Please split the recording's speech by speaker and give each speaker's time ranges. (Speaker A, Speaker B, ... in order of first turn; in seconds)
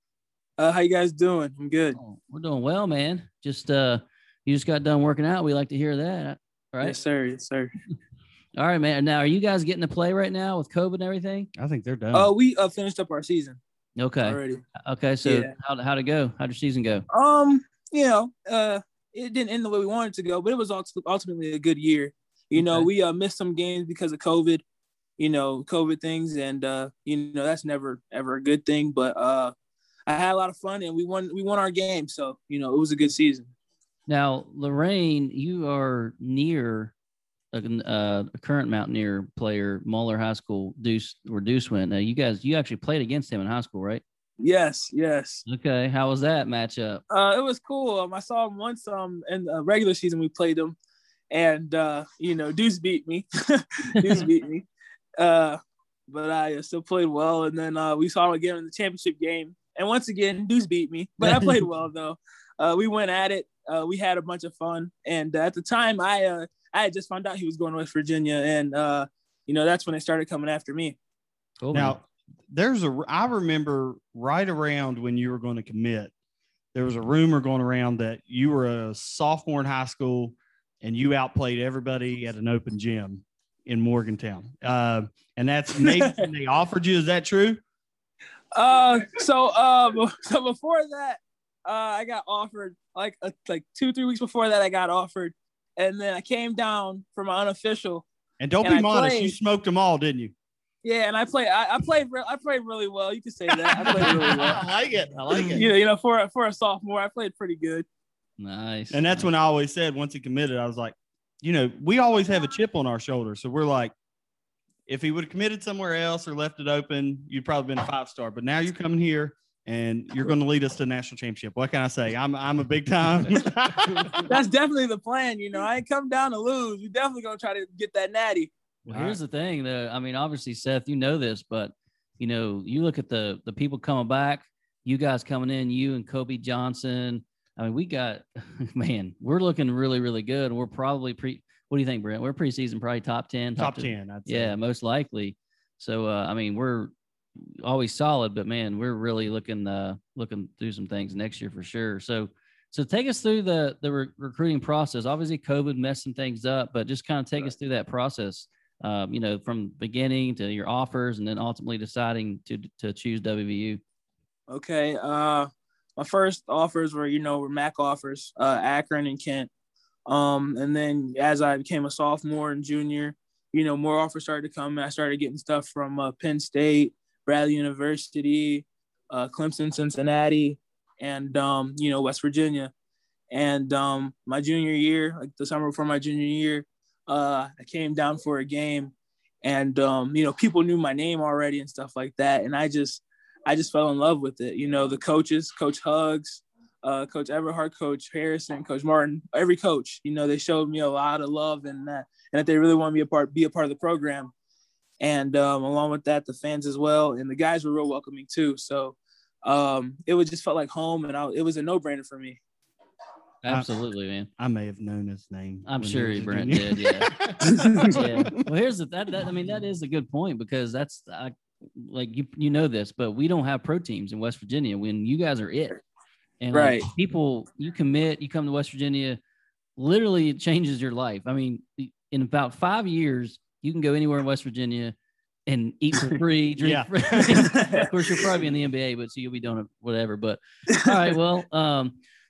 Speaker A: 0.6-2.0, 6.8-7.7, 12.1-13.6, 14.2-14.6, 15.2-15.5, 17.1-24.6, 25.2-29.5, 30.1-33.5, 44.4-45.4, 47.1-50.8, 51.3-54.7, 55.2-71.0, 85.8-86.2, 88.5-98.0, 98.6-99.4, 100.8-104.6, 105.3-107.8, 124.3-128.5, 164.5-169.5, 170.1-182.7, 183.3-204.3, 205.0-212.4, 217.4-217.9, 226.5-226.9, 237.4-237.9
Speaker B: 1.9-7.0, 8.6-11.5, 14.0-17.0, 22.6-22.9, 34.1-36.9, 37.5-44.0, 45.5-47.0, 71.6-72.0, 108.4-109.3, 128.9-163.8, 213.4-214.3, 215.7-217.2, 217.9-225.8, 226.4-229.2, 229.8-234.9, 235.5-242.0
Speaker C: 11.6-12.3, 71.7-76.1, 76.7-87.6, 98.4-100.3, 103.8-105.7, 108.9-113.9, 114.9-124.2, 128.8-129.2, 143.6-144.6, 214.4-218.3, 236.6-237.5